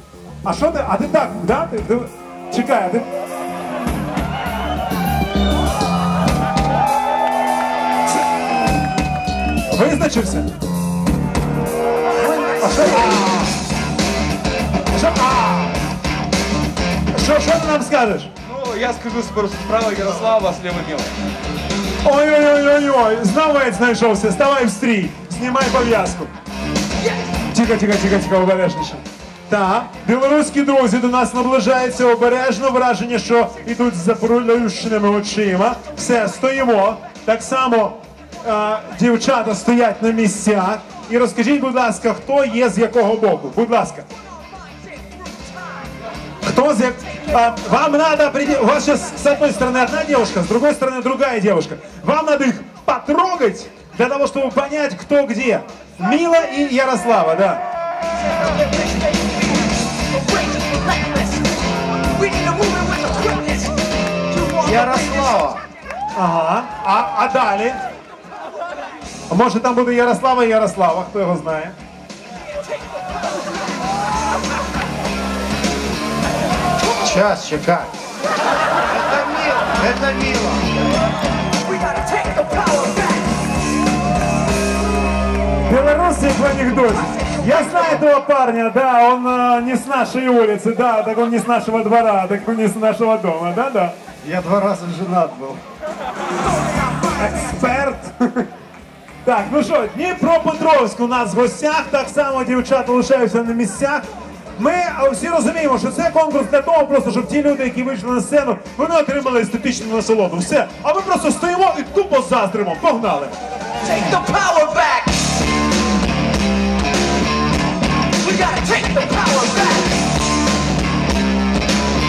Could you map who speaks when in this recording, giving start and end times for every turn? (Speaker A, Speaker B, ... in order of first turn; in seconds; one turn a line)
Speaker A: 0.4-3.1
Speaker A: 9.7-10.5
Speaker A: 12.4-13.5
Speaker A: 14.9-15.8
Speaker A: 17.1-18.3
Speaker B: 18.4-21.1
Speaker A: 22.0-26.3
Speaker A: 27.5-44.1
Speaker A: 46.4-57.6
Speaker C: 58.6-59.4
Speaker C: 60.1-61.5
Speaker C: 62.1-63.8
Speaker C: 64.3-65.3
Speaker D: 64.6-65.6
Speaker A: 66.1-67.8
Speaker A: 69.3-71.8
Speaker D: 76.9-77.9
Speaker D: 78.8-80.7
Speaker C: 81.7-83.2
Speaker A: 85.6-94.0
Speaker D: 94.2-95.6
Speaker A: 97.0-98.5
Speaker A: 99.2-113.3
Speaker C: 113.8-115.2
Speaker C: 118.2-120.0